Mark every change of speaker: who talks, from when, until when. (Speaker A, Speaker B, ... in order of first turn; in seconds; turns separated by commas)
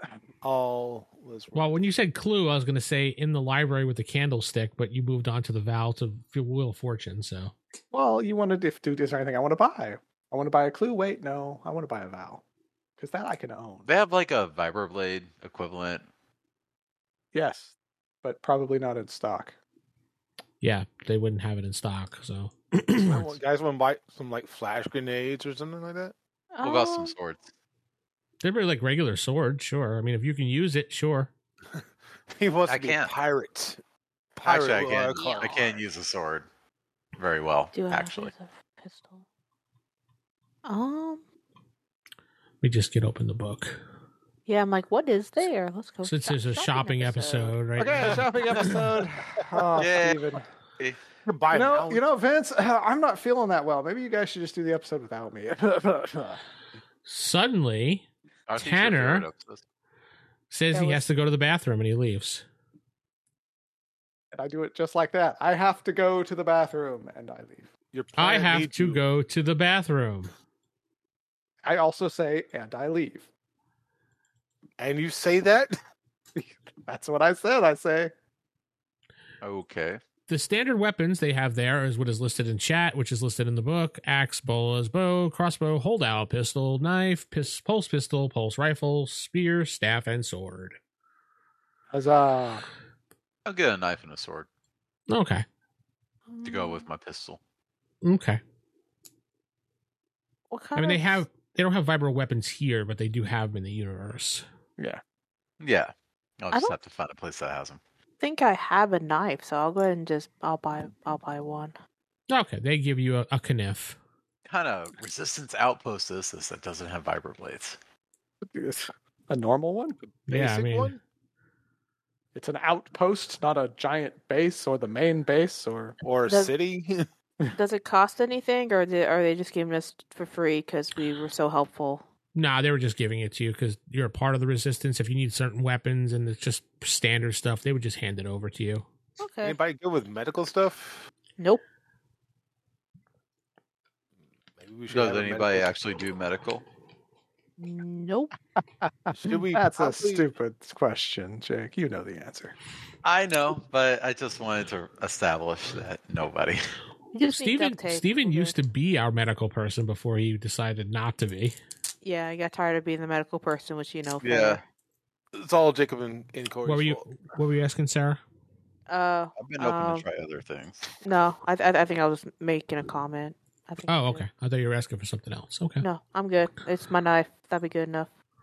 Speaker A: 0.4-1.7, Speaker B: 1.5-7.5, Speaker C: 7.9-12.4, Speaker C: 13.0-13.9, Speaker D: 13.9-16.1, Speaker C: 17.3-19.6, Speaker B: 20.6-23.4, Speaker A: 23.0-26.1, Speaker E: 26.5-27.1, Speaker D: 26.6-27.5, Speaker B: 28.4-31.3, Speaker A: 31.8-33.8, Speaker D: 32.7-33.2, Speaker A: 34.4-35.6, Speaker D: 34.4-36.5, Speaker E: 35.1-35.7, Speaker D: 37.2-38.3, Speaker E: 37.7-39.2, Speaker E: 40.6-41.2, Speaker B: 42.6-43.8, Speaker E: 44.5-47.6, Speaker B: 46.0-48.7, Speaker C: 47.8-50.5, Speaker D: 49.8-51.0, Speaker A: 51.2-52.0, Speaker C: 51.5-56.4, Speaker B: 57.0-58.0, Speaker D: 58.5-59.6, Speaker B: 58.6-59.3, Speaker B: 60.5-62.5, Speaker E: 60.7-61.1, Speaker C: 64.3-67.7, Speaker A: 67.9-69.0, Speaker B: 68.2-70.3, Speaker C: 71.6-73.3, Speaker A: 74.8-75.8, Speaker C: 76.3-78.1, Speaker D: 79.4-80.0, Speaker B: 80.3-90.8, Speaker C: 91.9-92.7, Speaker D: 93.5-94.5, Speaker B: 95.1-95.5, Speaker E: 96.3-96.9, Speaker D: 96.4-97.4, Speaker B: 98.0-98.4, Speaker E: 100.5-101.2, Speaker B: 100.8-104.5, Speaker D: 105.6-107.8, Speaker E: 108.2-111.8, Speaker B: 112.3-114.0, Speaker D: 114.5-117.8, Speaker C: 118.4-120.0, Speaker B: 120.3-121.0, Speaker A: 120.3-121.0, Speaker C: 122.3-126.0, Speaker A: 126.0-127.1, Speaker E: 126.3-126.5, Speaker E: 127.5-132.1, Speaker B: 132.3-138.9, Speaker E: 139.2-139.6, Speaker A: 139.4-141.1, Speaker A: 144.6-145.8, Speaker D: 144.9-146.6, Speaker E: 147.6-148.3, Speaker A: 149.1-150.2, Speaker C: 149.1-152.6, Speaker D: 153.0-156.7, Speaker E: 157.1-158.6, Speaker B: 157.1-161.6, Speaker E: 162.0-164.6, Speaker D: 164.2-164.6, Speaker A: 165.3-167.1, Speaker B: 166.7-168.2, Speaker E: 168.9-170.1, Speaker D: 169.4-171.0, Speaker E: 171.0-174.3, Speaker B: 173.9-175.9, Speaker E: 175.8-178.1